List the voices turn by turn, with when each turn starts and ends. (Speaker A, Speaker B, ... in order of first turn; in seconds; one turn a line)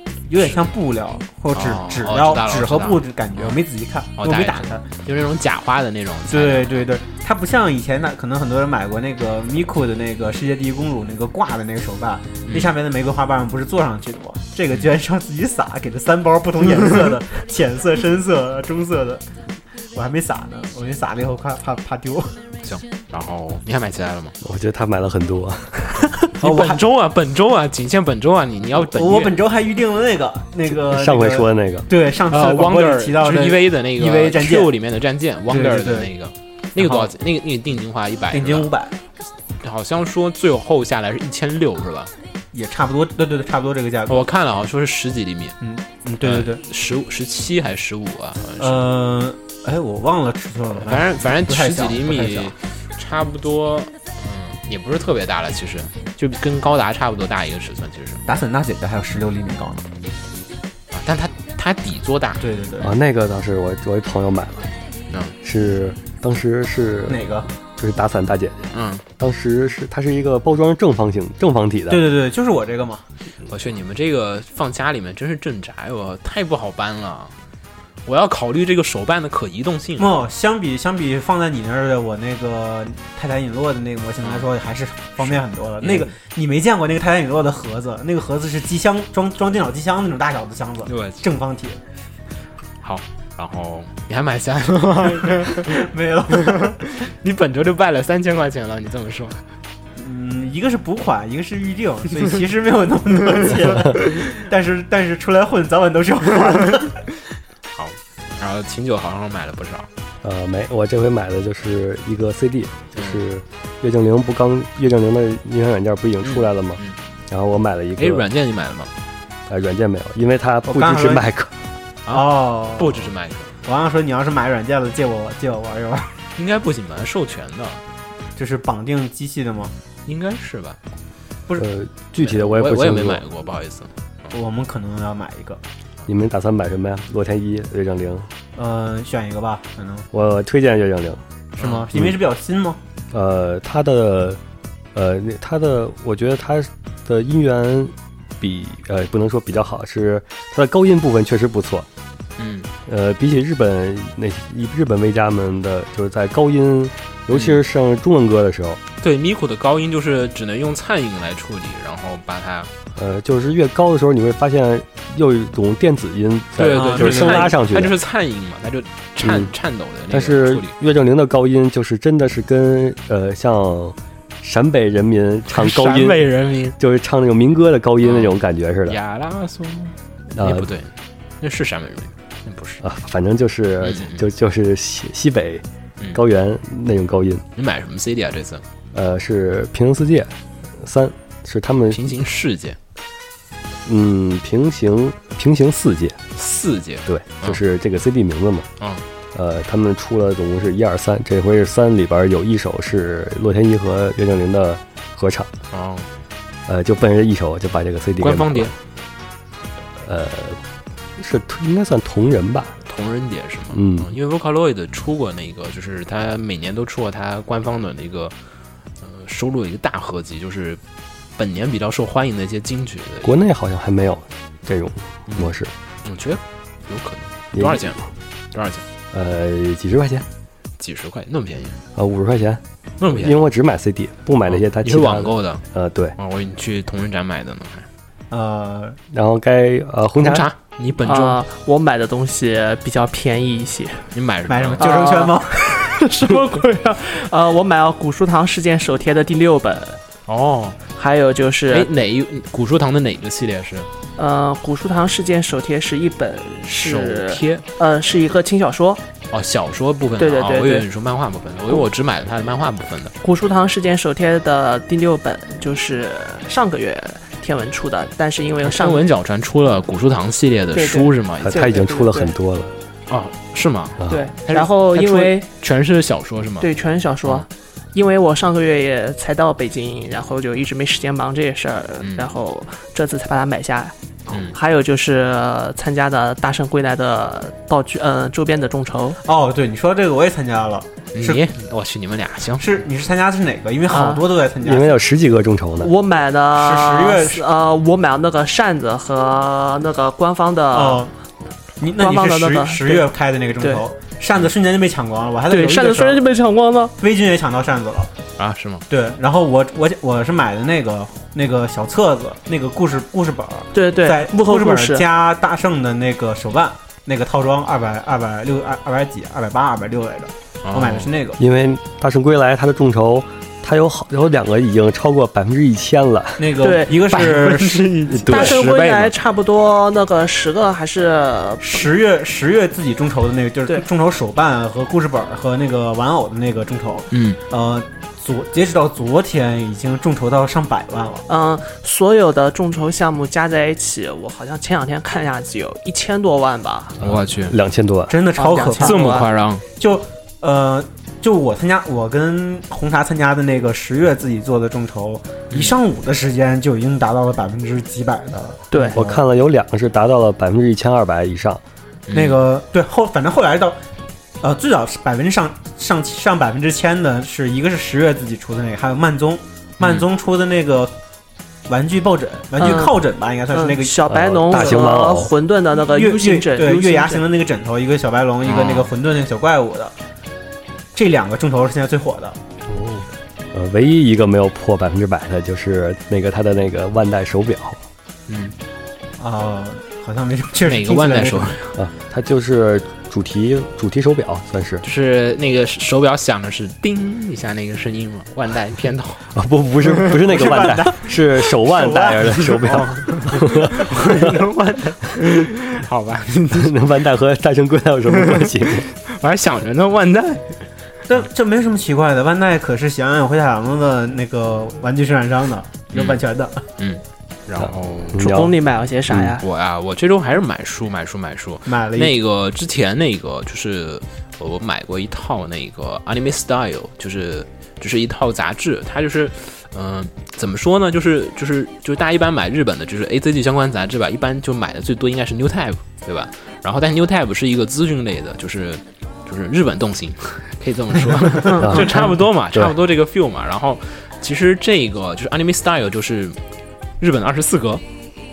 Speaker A: 0.3-4.8
Speaker B: 1.5-3.6
Speaker B: 4.2-6.7
Speaker A: 6.3-19.2
Speaker B: 12.4-12.7
Speaker A: 19.9-22.3
Speaker B: 22.6-24.4
Speaker C: 24.4-26.0
Speaker B: 26.4-29.3
Speaker A: 26.4-26.8
Speaker A: 28.8-34.7
Speaker C: 30.7-31.9
Speaker B: 32.3-38.7
Speaker A: 35.5-36.1
Speaker A: 36.8-37.1
Speaker A: 38.3-39.0
Speaker B: 39.6-42.1
Speaker A: 42.5-44.3
Speaker B: 44.1-45.5
Speaker A: 45.6-46.6
Speaker B: 46.2-48.9
Speaker A: 48.6-52.5
Speaker B: 50.8-58.2
Speaker A: 58.3-59.8
Speaker B: 60.9-62.4
Speaker A: 62.4-62.9
Speaker C: 62.8-64.7
Speaker C: 65.4-72.0
Speaker A: 67.1-67.5
Speaker B: 68.7-69.0
Speaker A: 71.9-73.0
Speaker B: 73.4-77.3
Speaker B: 78.0-80.1
Speaker A: 80.0-91.8
Speaker B: 84.2-84.5
Speaker B: 85.2-86.1
Speaker B: 90.8-91.2
Speaker B: 92.8-95.8
Speaker A: 95.5-96.8
Speaker B: 96.4-99.4
Speaker A: 100.0-107.0
Speaker B: 107.7-109.9
Speaker C: 110.2-118.2
Speaker B: 112.9-113.2
Speaker B: 116.2-117.0
Speaker B: 118.0-118.9
Speaker C: 119.5-121.5
Speaker A: 120.7-121.3
Speaker B: 122.1-123.5
Speaker A: 122.1-123.1
Speaker A: 123.6-126.2
Speaker B: 126.3-127.8
Speaker A: 128.3-129.7
Speaker B: 130.1-130.8
Speaker C: 131.6-133.2
Speaker B: 132.2-133.9
Speaker A: 134.3-135.6
Speaker C: 136.1-138.3
Speaker A: 138.5-140.1
Speaker C: 140.1-141.2
Speaker A: 141.6-142.8
Speaker B: 141.6-141.9
Speaker C: 143.1-144.4
Speaker C: 144.9-151.9
Speaker B: 152.4-152.7
Speaker C: 152.8-158.8
Speaker B: 157.3-157.6
Speaker B: 159.0-162.7
Speaker C: 162.9-167.9
Speaker B: 166.6-170.7
Speaker A: 166.7-167.5
Speaker C: 169.2-169.5
Speaker C: 170.1-176.2
Speaker B: 175.5-176.8
Speaker C: 176.8-179.0
Speaker B: 178.0-182.8
Speaker C: 180.3-180.7
Speaker C: 182.8-185.6
Speaker B: 183.8-184.2
Speaker C: 186.1-187.4
Speaker B: 187.6-188.6
Speaker C: 188.9-192.0
Speaker B: 191.9-192.8
Speaker C: 193.8-196.2
Speaker B: 196.3-197.6
Speaker C: 197.1-198.7
Speaker C: 199.3-205.5
Speaker B: 205.7-206.1
Speaker C: 206.7-208.7
Speaker B: 208.2-208.7
Speaker C: 210.0-210.6
Speaker C: 211.2-212.7
Speaker B: 212.8-218.3
Speaker C: 213.7-214.1
Speaker B: 219.0-220.8
Speaker B: 221.4-223.4
Speaker C: 223.2-225.7
Speaker B: 225.3-228.0
Speaker C: 227.5-228.1
Speaker B: 228.5-228.8
Speaker C: 229.1-230.2
Speaker B: 230.8-231.8
Speaker C: 231.9-236.1
Speaker B: 233.0-233.4
Speaker B: 234.5-235.6
Speaker B: 236.2-237.9
Speaker A: 238.3-239.0
Speaker C: 239.1-240.5
Speaker B: 240.2-241.4
Speaker D: 241.0-244.1
Speaker B: 244.1-244.9
Speaker A: 244.5-245.8
Speaker D: 244.8-250.0
Speaker B: 250.3-250.8
Speaker D: 250.9-251.9
Speaker B: 251.7-253.9
Speaker D: 254.2-259.0
Speaker B: 256.8-257.6
Speaker B: 259.3-263.1
Speaker D: 260.2-260.9
Speaker D: 263.2-269.0
Speaker B: 268.6-271.6
Speaker D: 270.7-272.3
Speaker C: 271.4-272.7
Speaker B: 273.1-276.7
Speaker C: 274.0-274.2
Speaker D: 274.1-275.5
Speaker D: 276.6-289.2
Speaker B: 282.0-282.3
Speaker B: 284.3-284.6
Speaker A: 289.2-291.5
Speaker B: 291.1-292.8
Speaker A: 292.6-295.0
Speaker D: 293.9-294.2
Speaker C: 294.6-295.9
Speaker D: 295.8-301.1
Speaker A: 296.6-297.4
Speaker A: 300.7-301.1
Speaker A: 301.8-306.2
Speaker D: 301.9-303.9
Speaker D: 305.5-306.9
Speaker A: 307.0-308.1
Speaker B: 308.4-308.8
Speaker A: 308.9-321.4
Speaker D: 313.7-315.1
Speaker B: 320.6-321.1
Speaker C: 321.4-326.6
Speaker A: 326.4-328.0
Speaker D: 326.6-331.9
Speaker C: 328.1-328.6
Speaker B: 328.2-329.1
Speaker A: 331.6-341.2
Speaker B: 337.1-337.4
Speaker D: 341.3-347.0
Speaker B: 347.0-347.6
Speaker C: 347.0-348.2
Speaker A: 348.1-349.0
Speaker D: 348.3-349.3
Speaker B: 348.8-349.6
Speaker A: 349.8-359.2
Speaker B: 355.5-355.8
Speaker D: 358.7-359.0
Speaker C: 358.9-361.6
Speaker B: 362.1-362.4
Speaker A: 362.1-363.8
Speaker A: 364.4-370.9
Speaker B: 369.8-370.1
Speaker A: 371.7-374.7
Speaker D: 372.6-377.2
Speaker C: 374.1-375.3
Speaker A: 375.8-379.9
Speaker B: 378.4-378.9
Speaker A: 380.9-382.4
Speaker B: 382.7-383.0
Speaker C: 383.5-387.8
Speaker B: 388.3-388.5
Speaker A: 389.2-391.6
Speaker B: 390.6-391.8
Speaker C: 391.8-394.8
Speaker B: 394.8-399.2
Speaker C: 399.3-403.7
Speaker B: 399.8-400.1
Speaker A: 400.2-403.4
Speaker B: 402.6-407.0
Speaker C: 406.5-408.9
Speaker B: 408.1-410.6
Speaker A: 411.1-416.6
Speaker B: 415.9-416.2
Speaker B: 416.8-418.4
Speaker C: 417.6-418.6
Speaker D: 418.2-419.4
Speaker C: 419.1-419.4
Speaker B: 419.4-446.4
Speaker A: 421.6-422.1
Speaker C: 441.6-442.7
Speaker B: 447.0-447.8